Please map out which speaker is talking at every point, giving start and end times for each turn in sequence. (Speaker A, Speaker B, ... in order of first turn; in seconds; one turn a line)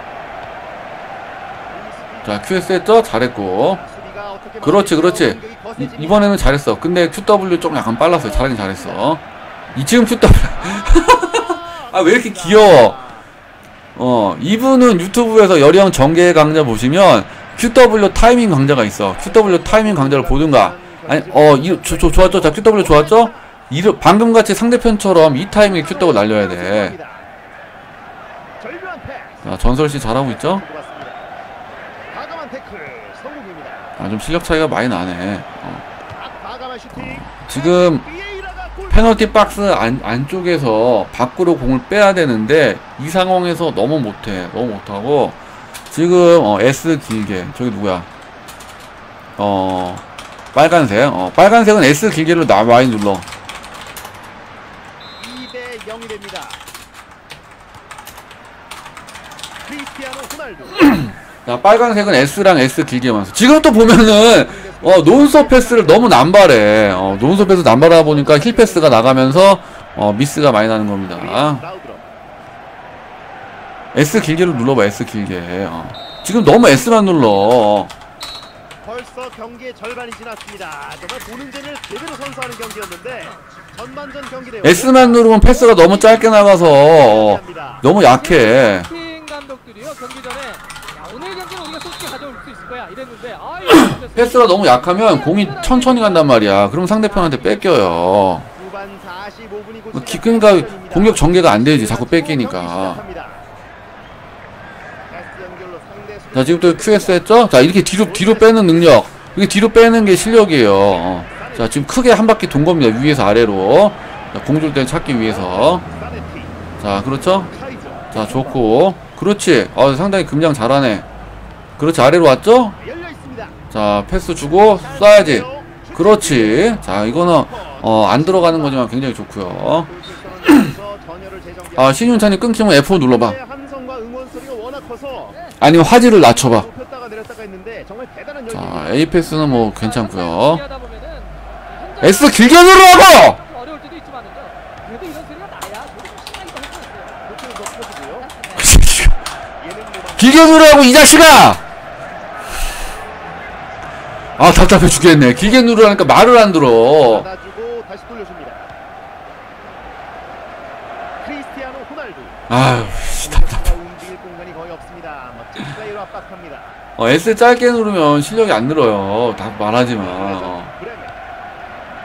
Speaker A: 1.7-3.0
Speaker B: 2.2-3.8
Speaker A: 3.5-6.4
Speaker B: 4.6-13.0
Speaker A: 8.1-9.2
Speaker A: 10.6-13.3
Speaker B: 14.0-26.9
Speaker A: 19.2-23.5
Speaker A: 25.6-27.3
Speaker A: 28.6-31.3
Speaker B: 29.4-30.6
Speaker A: 32.1-34.0
Speaker B: 34.0-35.9
Speaker A: 36.1-39.6
Speaker B: 37.0-38.0
Speaker B: 38.9-45.4
Speaker B: 45.9-48.1
Speaker B: 49.4-53.3
Speaker A: 55.2-56.6
Speaker A: 59.6-61.1
Speaker B: 60.8-71.6
Speaker A: 63.9-69.6
Speaker A: 71.2-72.0
Speaker B: 73.9-77.9
Speaker A: 76.8-77.4
Speaker A: 78.8-87.9
Speaker B: 84.6-88.9
Speaker C: 88.1-96.7
Speaker B: 93.7-98.5
Speaker A: 98.5-103.5
Speaker B: 99.9-103.0
Speaker A: 105.1-109.0
Speaker B: 106.3-115.9
Speaker A: 111.3-112.0
Speaker A: 115.3-116.6
Speaker B: 116.8-117.5
Speaker A: 117.5-118.6
Speaker B: 118.1-121.1
Speaker B: 121.8-122.8
Speaker A: 122.8-123.6
Speaker B: 123.7-129.9
Speaker A: 124.5-128.9
Speaker A: 129.8-139.2
Speaker B: 131.8-133.4
Speaker B: 135.6-136.7
Speaker B: 138.5-140.6
Speaker C: 139.3-147.2
Speaker B: 142.0-143.4
Speaker A: 147.2-148.3
Speaker C: 148.2-148.8
Speaker B: 148.6-149.2
Speaker A: 149.6-151.1
Speaker B: 150.2-151.6
Speaker B: 154.4-157.3
Speaker A: 157.0-158.7
Speaker A: 161.2-166.8
Speaker B: 162.5-163.7
Speaker B: 167.0-170.7
Speaker A: 170.0-171.2